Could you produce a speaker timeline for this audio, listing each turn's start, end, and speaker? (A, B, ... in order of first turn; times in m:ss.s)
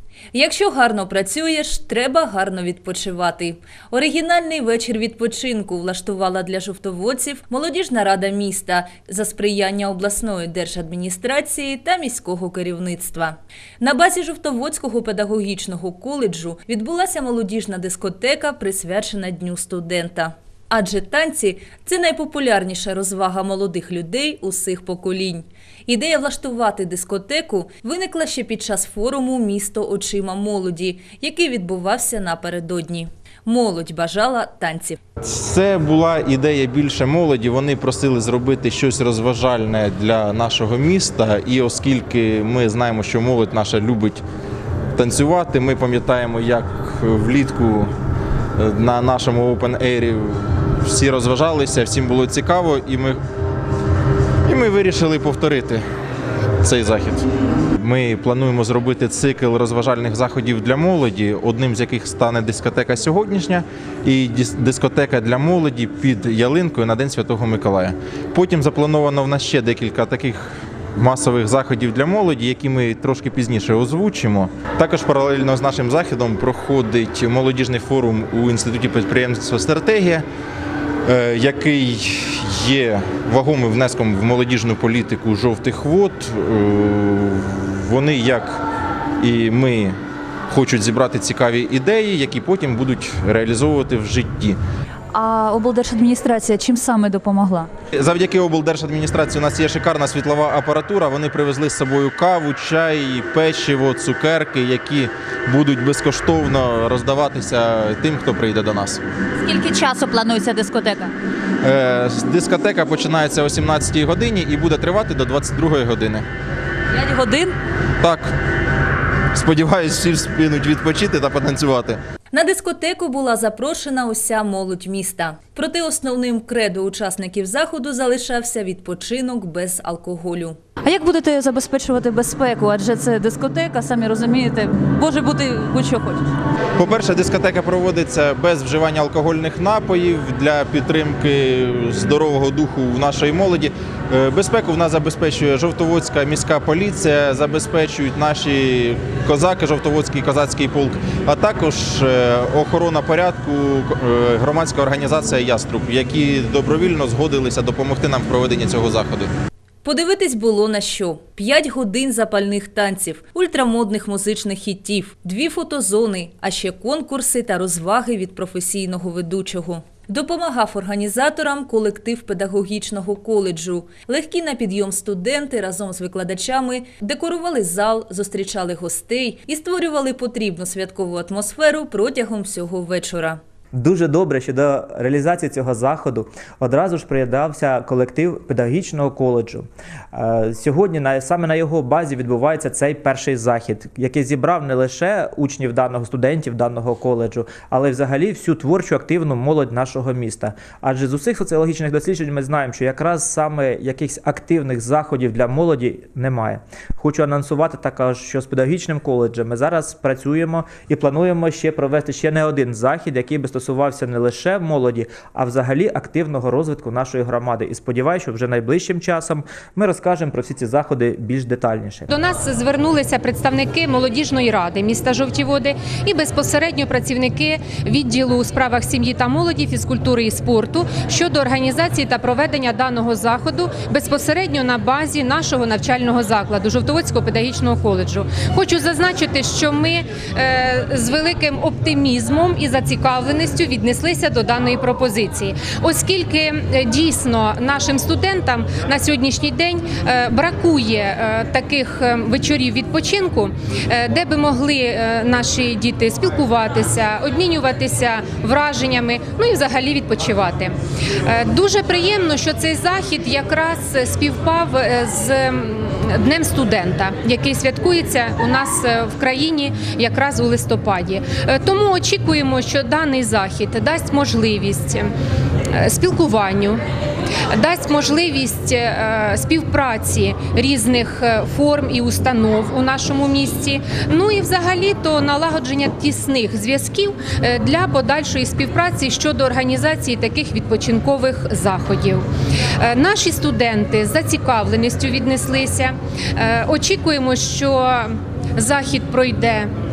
0:00.3-0:35.0 A
0:35.2-0:44.2 B
0:44.9-0:47.9 B
0:48.6-0:53.2 B
0:54.4-0:55.8 B
0:56.6-0:57.2 B
0:57.8-1:20.2 B
1:21.0-1:28.6 B
1:29.2-1:29.9 B
1:30.5-1:34.6 B
1:35.1-1:37.7 C
1:38.0-1:49.0 B
1:49.4-1:51.1 C
1:51.6-1:56.2 B
1:56.9-1:57.5 C
1:58.0-1:58.3 B
1:59.3-2:02.0 B
2:02.3-2:10.6 A
2:10.8-2:16.3 C
2:16.8-2:39.3 B
2:39.8-3:03.4 A
3:03.7-3:42.1 D
3:42.1-4:20.7 E
4:21.2-4:35.1 E
4:35.7-4:36.8 E
4:37.5-4:52.2 E
4:52.8-4:59.7 E